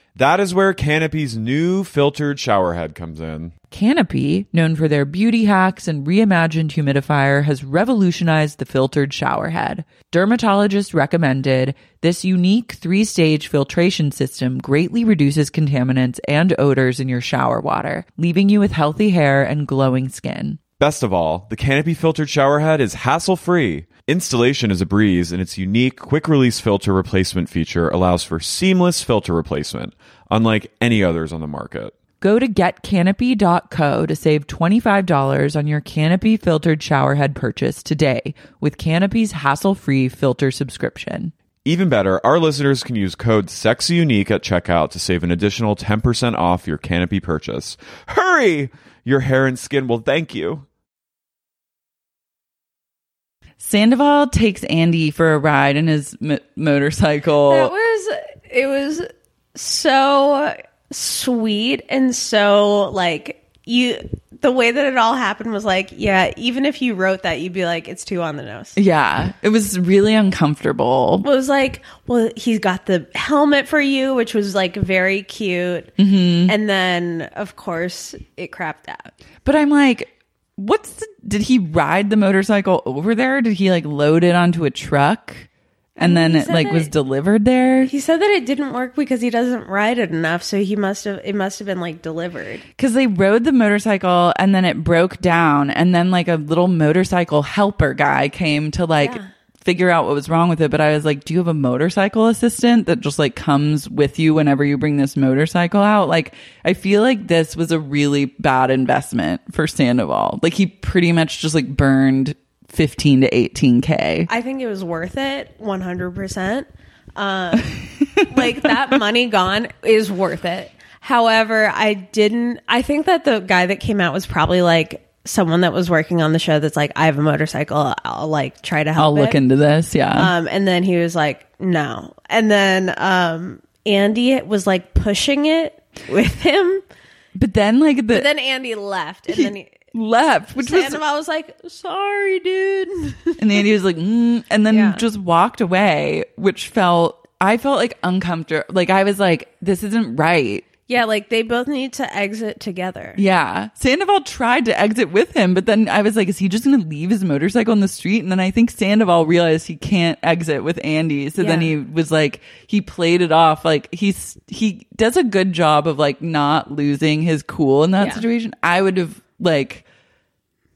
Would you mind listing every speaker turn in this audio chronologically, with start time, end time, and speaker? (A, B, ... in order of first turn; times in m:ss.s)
0:00.2-0:03.5 A
0:03.7-0:20.6 B
0:20.8-0:32.0 A
0:32.2-0:41.3 B
0:41.6-0:50.7 A
0:53.6-0:57.7 B
0:57.5-1:08.8 C
1:08.8-1:11.3 B
1:11.2-1:19.1 C
1:16.0-1:16.5 B
1:19.4-1:27.9 B
1:26.0-1:26.9 C
1:27.8-1:32.6 C
1:32.8-1:54.3 B
1:39.0-1:39.3 C
1:54.3-2:09.4 C
1:58.2-1:58.5 B
2:09.0-2:10.3 B
2:10.2-2:16.8 C
2:17.4-2:18.3 B
2:18.1-2:19.7 C
2:19.3-2:21.0 B
2:20.6-2:23.7 C
2:23.4-2:30.6 B
2:24.7-2:25.0 C
2:30.9-2:33.2 C
2:33.2-2:49.8 B
2:41.4-2:41.7 C
2:48.0-2:48.2 C